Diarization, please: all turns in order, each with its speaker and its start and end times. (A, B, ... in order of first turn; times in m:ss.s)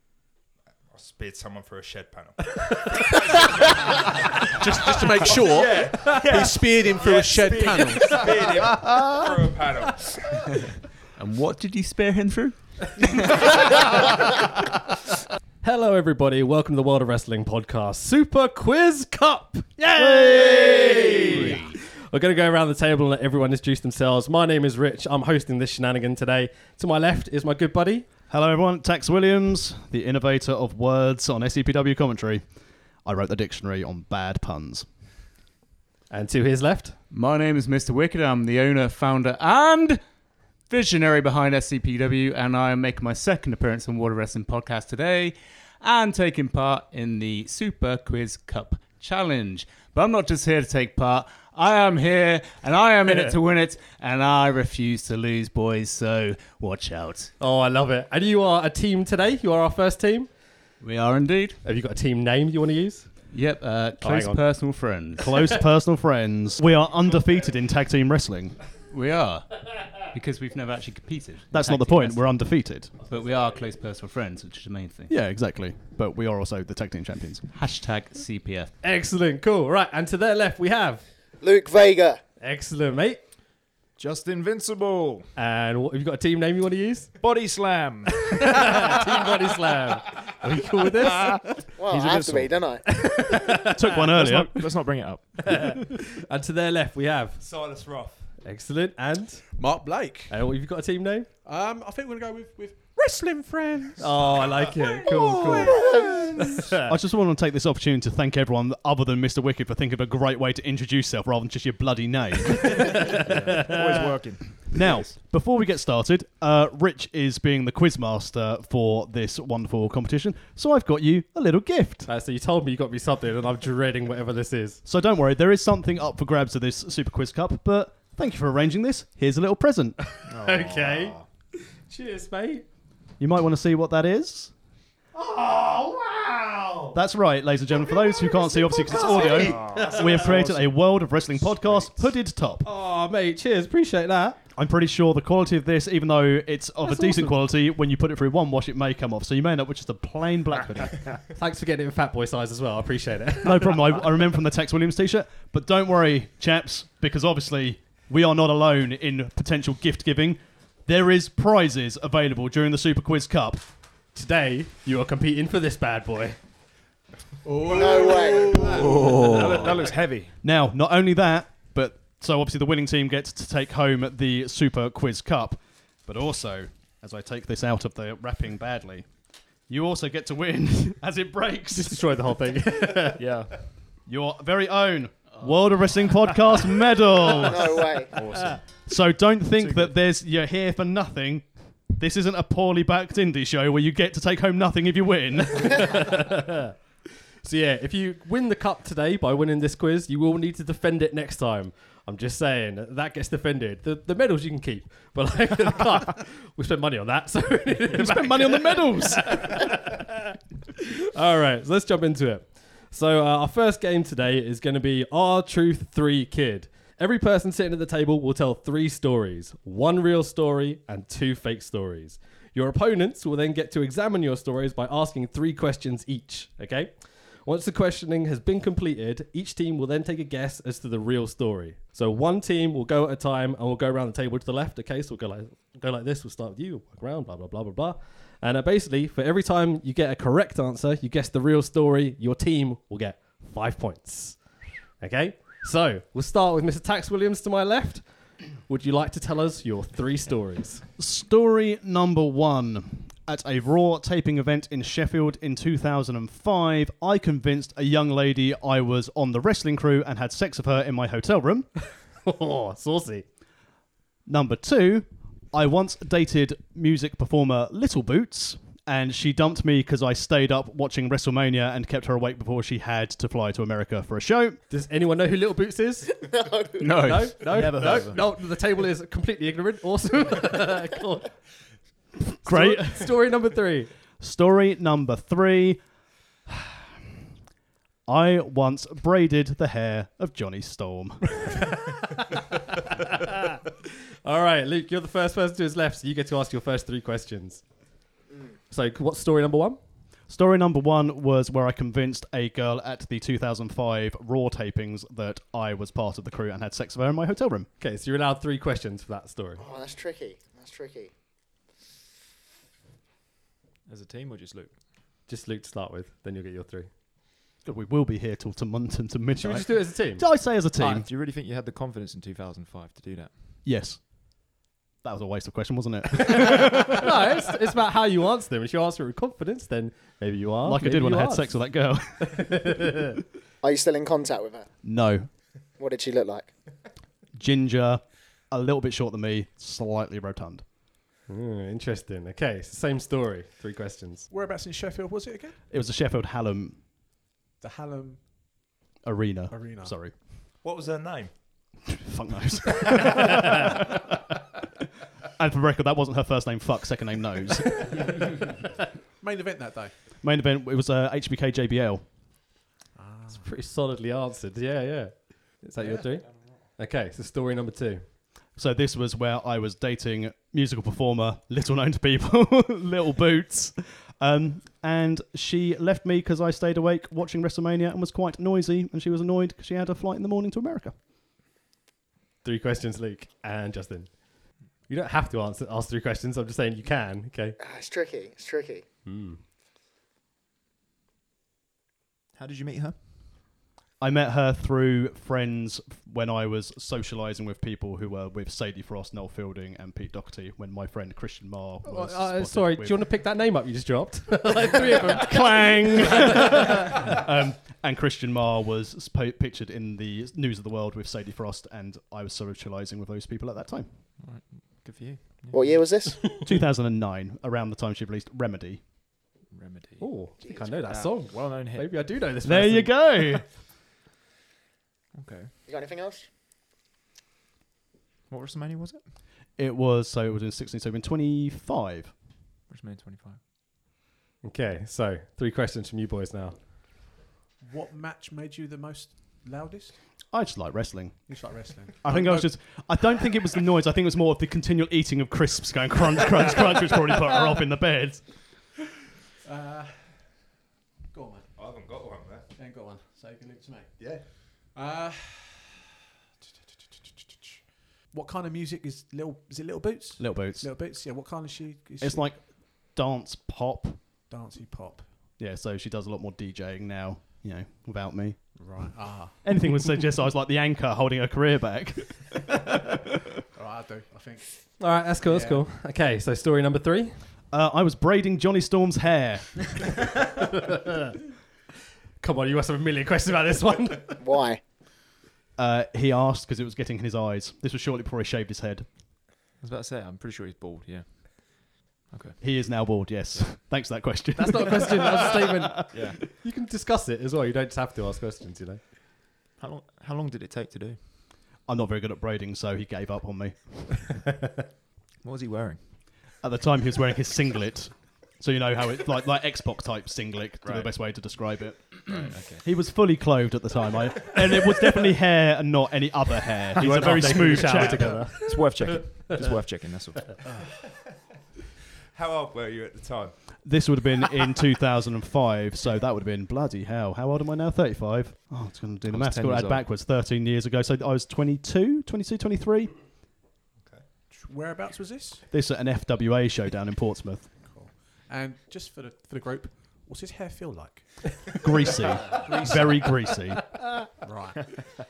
0:00.9-0:02.4 A
0:03.1-0:03.4 A
0:04.6-0:08.6 B
0:04.8-0:10.6 A
0:11.2-0:13.2 C
0:13.5-0:13.8 D
0:15.6-0:28.1 D
0:20.0-0:21.5 E
0:21.3-0:21.8 C
0:28.3-0:32.4 E
0:33.0-0:34.9 E
0:36.1-0:37.0 D
0:37.1-0:40.0 C
0:40.7-0:57.3 C
0:57.4-1:00.3 D
1:00.8-1:01.6 C
1:01.6-1:03.1 D
1:03.3-1:05.3 C
1:04.0-1:04.4 D
1:05.2-1:08.6 E
1:08.9-1:12.2 C
1:11.5-1:12.9 E
1:13.0-1:15.1 C
1:15.1-1:17.4 E
1:17.5-1:18.7 C
1:18.8-1:21.0 D
1:21.4-1:22.2 F
1:22.4-1:23.2 D
1:24.0-1:25.3 G
1:25.4-1:27.1 D
1:27.2-1:28.6 G
1:28.4-1:31.6 D
1:31.8-1:32.8 F
1:31.9-1:32.6 G
1:32.8-1:34.2 D
1:33.7-1:34.6 E
1:34.1-1:35.7 G
1:35.4-1:37.4 D
1:37.4-1:38.3 A
1:38.4-1:39.4 D
1:39.5-1:40.4 B
1:40.3-1:41.3 D
1:41.4-1:45.2 B
1:44.0-1:46.9 D
1:46.8-1:53.3 E
1:53.1-1:55.1 G
1:53.3-1:54.1 D
1:54.7-2:02.1 E
2:02.0-2:04.8 D
2:04.8-2:10.0 E
2:10.2-2:11.1 D
2:10.3-2:11.2 G
2:11.8-2:12.6 D
2:13.2-2:14.5 E
2:15.1-2:17.0 D
2:16.9-2:22.6 E
2:18.6-2:20.4 D
2:19.1-2:22.1 G
2:22.6-2:24.4 D
2:24.5-2:31.0 E
2:26.8-2:27.3 D
2:30.6-2:31.2 G
2:31.4-2:33.8 D
2:33.4-2:43.7 E
2:44.1-2:46.4 D
2:47.4-2:48.9 B
2:47.5-2:49.0 A
2:47.8-2:48.5 F
2:48.7-2:50.3 G
2:49.0-2:49.6 C
2:50.4-2:59.1 E
2:59.7-3:02.4 E
3:01.7-3:03.3 D
3:03.2-3:03.5 G
3:04.0-3:08.0 E
3:07.4-3:08.1 F
3:08.1-3:08.6 G
3:08.8-3:16.0 E
3:09.6-3:10.0 G
3:15.6-3:16.7 D
3:17.4-3:30.0 D
3:27.9-3:29.6 E
3:31.0-4:10.8 D
4:11.0-4:21.7 E
4:22.2-4:23.2 D
4:24.2-4:34.6 E
4:34.7-4:36.2 D
4:36.2-4:36.8 F
4:36.8-4:37.3 C
4:37.0-4:41.4 D
4:37.5-4:38.2 E
4:37.7-4:38.2 G
4:42.4-4:43.9 D
4:42.4-4:43.1 E
4:44.2-4:45.8 E
4:48.1-4:51.6 E
4:54.2-4:57.6 D
4:58.7-4:59.8 D
5:00.3-5:07.7 E
5:07.8-5:09.6 D
5:09.6-5:11.1 F
5:13.9-5:14.8 G
5:15.3-5:16.9 D
5:17.6-5:21.1 E
5:19.4-5:20.3 D
5:20.7-5:23.3 G
5:23.6-5:24.5 E
5:25.0-5:27.4 E
5:27.0-5:33.0 D
5:30.6-5:32.6 E
5:33.6-5:34.7 F
5:34.8-5:35.3 E
5:35.8-5:36.5 F
5:37.3-5:40.7 E
5:41.3-5:44.2 D
5:44.3-5:45.6 B
5:45.7-5:46.8 E
5:47.6-5:48.6 B
5:49.0-5:50.1 E
5:49.5-5:50.0 B
5:50.6-5:51.3 A
5:51.9-5:53.8 E
5:55.4-5:57.8 E
5:59.2-5:59.9 B
6:00.2-6:02.0 E
6:02.9-6:03.5 B
6:03.3-6:08.0 D
6:08.5-6:21.0 E
6:22.4-6:27.6 D
6:27.6-6:28.8 F
6:29.0-6:29.4 D
6:32.3-6:33.0 G
6:34.0-6:43.0 E
6:41.8-6:47.0 D
6:45.1-6:53.9 E
6:54.2-6:55.9 G
6:55.5-6:56.3 F
6:56.4-6:58.8 E
6:59.5-7:02.2 G
7:00.0-7:03.3 D
7:02.4-7:03.5 E
7:05.1-7:05.5 G
7:05.7-7:06.2 F
7:08.3-7:09.0 G
7:09.6-7:12.1 E
7:12.7-7:13.4 G
7:14.4-7:16.6 D
7:17.6-7:20.0 B
7:20.3-7:21.5 E
7:21.3-7:22.6 B
7:22.0-7:28.2 E
7:29.4-7:29.9 B
7:31.1-7:31.5 B
7:31.6-7:32.4 A
7:32.5-7:33.9 B
7:34.0-7:34.2 A
7:34.7-7:35.8 B
7:36.4-7:42.3 B
7:40.2-7:40.7 E
7:42.0-7:44.2 E
7:44.3-7:45.1 B
7:45.4-7:48.6 E
7:48.5-7:49.4 B
7:49.4-7:52.4 E
7:53.5-7:54.7 B
7:54.8-7:57.1 D
7:55.2-7:55.6 B
7:57.5-7:59.9 E
8:02.2-8:04.2 D
8:04.2-8:04.6 F
8:05.6-8:08.9 E
8:09.6-8:12.4 G
8:12.4-8:16.1 E
8:14.4-8:18.8 D
8:15.9-8:16.2 G
8:19.6-8:21.0 G
8:21.6-8:24.0 E
8:25.2-8:25.8 G
8:26.4-8:38.2 E
8:30.6-8:30.9 G
8:32.1-8:32.6 G
8:36.8-8:39.5 D
8:38.4-8:40.3 G
8:42.1-8:43.3 A
8:43.6-8:53.0 E
8:49.1-8:49.9 G
8:54.3-8:55.4 B
8:55.5-8:57.5 E
8:57.6-9:01.2 B
9:01.6-9:03.6 E
9:02.2-9:03.2 B
9:04.2-9:04.7 B